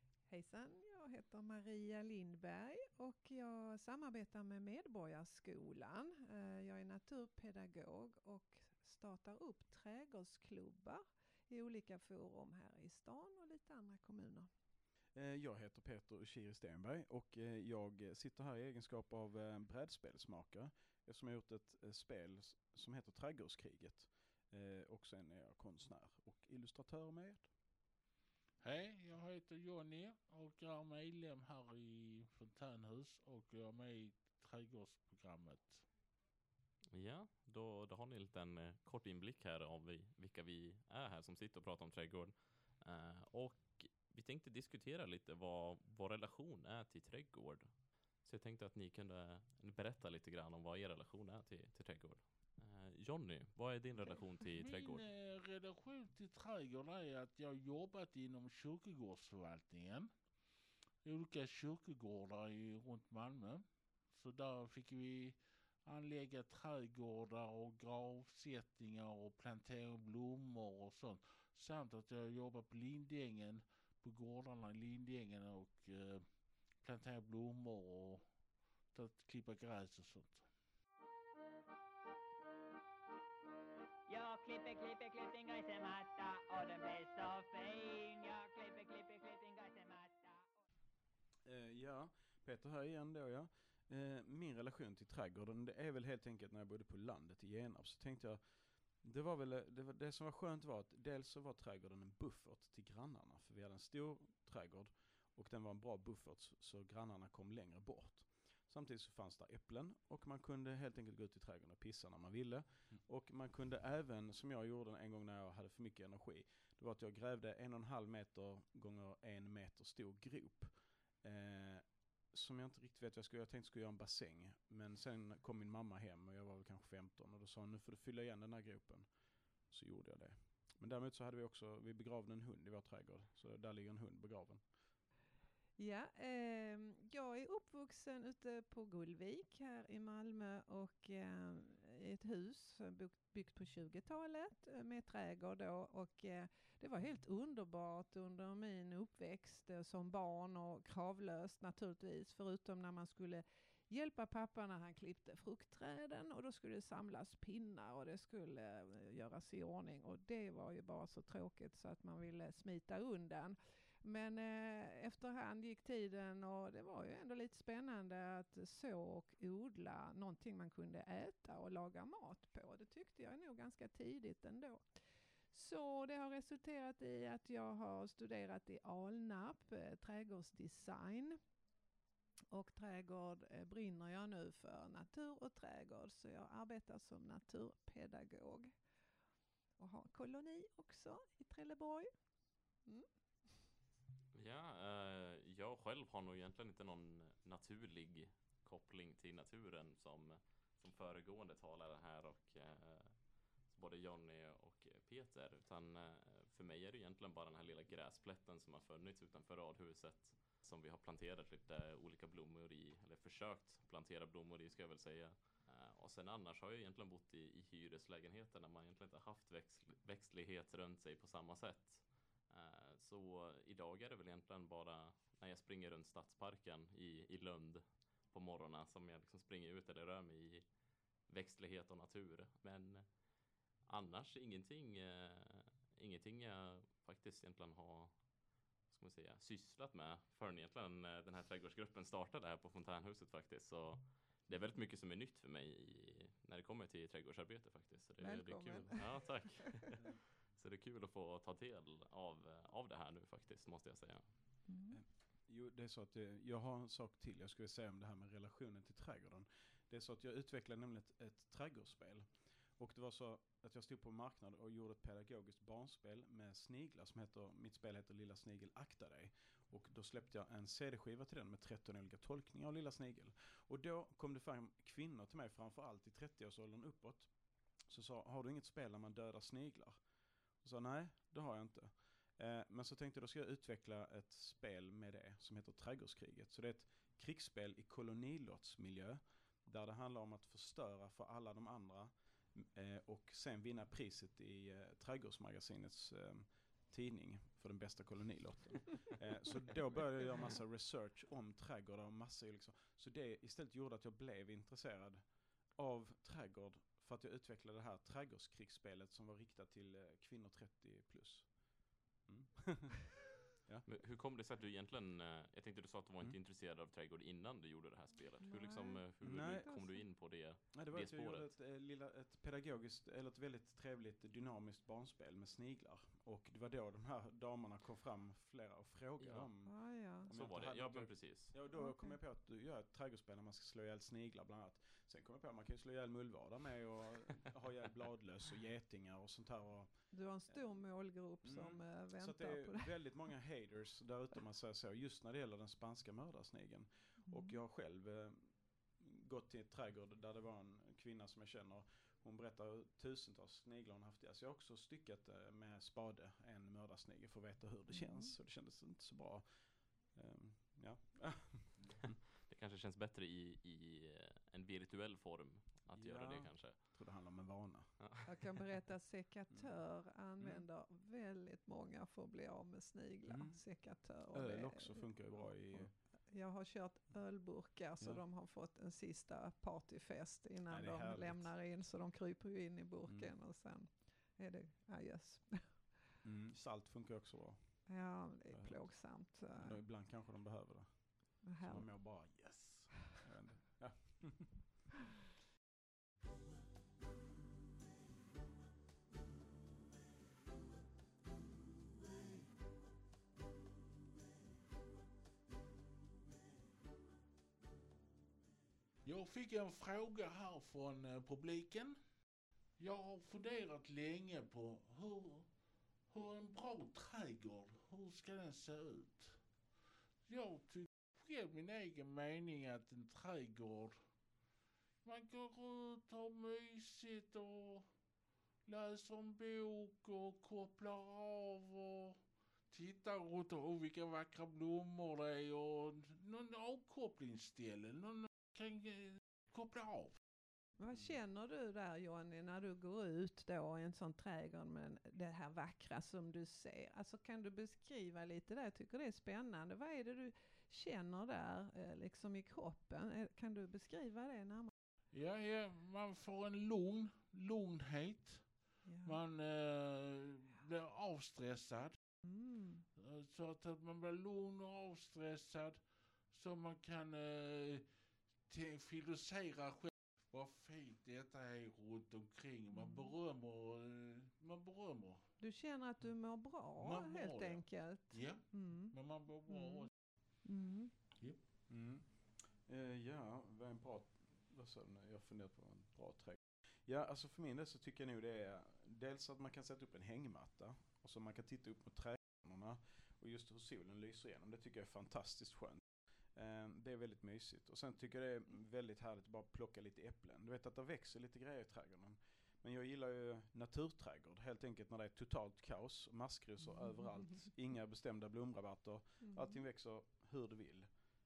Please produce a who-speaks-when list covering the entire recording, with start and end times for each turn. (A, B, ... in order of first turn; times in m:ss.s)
0:00.3-0:14.5 A
0:15.2-0:27.5 B
0:28.6-0:35.9 C
0:36.9-0:47.7 D
0:48.2-0:55.0 D
0:54.1-1:00.1 C
1:01.0-1:18.3 C
1:18.9-1:20.5 C
1:24.1-1:30.5 E
1:31.5-1:38.4 B
1:39.0-2:09.1 B
2:09.7-2:14.6 B
2:15.8-2:54.8 A
2:55.5-3:01.4 A
3:02.5-3:08.7 A
3:09.8-3:12.1 A
3:12.9-3:13.6 A
3:14.3-3:50.7 D
3:51.3-3:53.2 D
3:53.8-3:58.3 D
3:58.9-4:14.3 D
4:08.2-4:09.6 A
4:14.7-4:15.0 A
4:14.9-4:22.3 B
4:22.8-4:37.3 B
4:37.9-4:40.0 B
4:40.6-5:05.2 B
5:05.8-5:13.9 B
5:13.8-5:21.5 D
5:18.4-5:20.0 A
5:19.2-5:19.8 B
5:20.7-5:40.0 B
5:29.2-5:29.5 D
5:29.7-5:30.3 A
5:30.2-5:31.5 D
5:31.7-5:32.2 A
5:40.1-5:42.9 A
5:41.4-5:59.4 B
5:47.3-5:47.6 A
5:57.9-5:58.3 A
6:00.1-6:02.1 B
6:02.0-6:06.9 D
6:05.9-6:08.0 B
6:08.0-6:08.5 D
6:08.2-6:25.8 A
6:09.5-6:09.8 B
6:10.4-6:10.6 B
6:13.3-6:13.7 B
6:14.3-6:15.9 B
6:20.7-6:21.5 B
6:23.1-6:23.3 B
6:26.2-6:34.8 B
6:27.9-6:29.8 A
6:31.4-6:31.9 A
6:49.0-6:52.0 C
6:52.8-6:55.5 C
6:56.1-6:59.4 C
7:00.3-7:04.0 C
7:05.0-7:07.9 C
7:08.7-7:12.2 C
7:12.7-7:20.2 C
7:20.8-7:34.7 A
7:35.1-7:38.5 C
7:38.9-7:39.2 A
7:39.0-7:42.0 C
7:42.2-7:42.8 A
7:43.0-7:45.8 C
7:46.3-7:47.9 C
7:48.5-7:55.3 C
7:52.7-7:53.1 A
7:55.4-7:59.0 A
7:56.8-7:59.9 C
7:59.5-7:59.9 A
8:00.4-8:00.9 A
8:01.7-8:30.9 B
8:26.8-8:27.4 A
8:29.2-8:29.6 A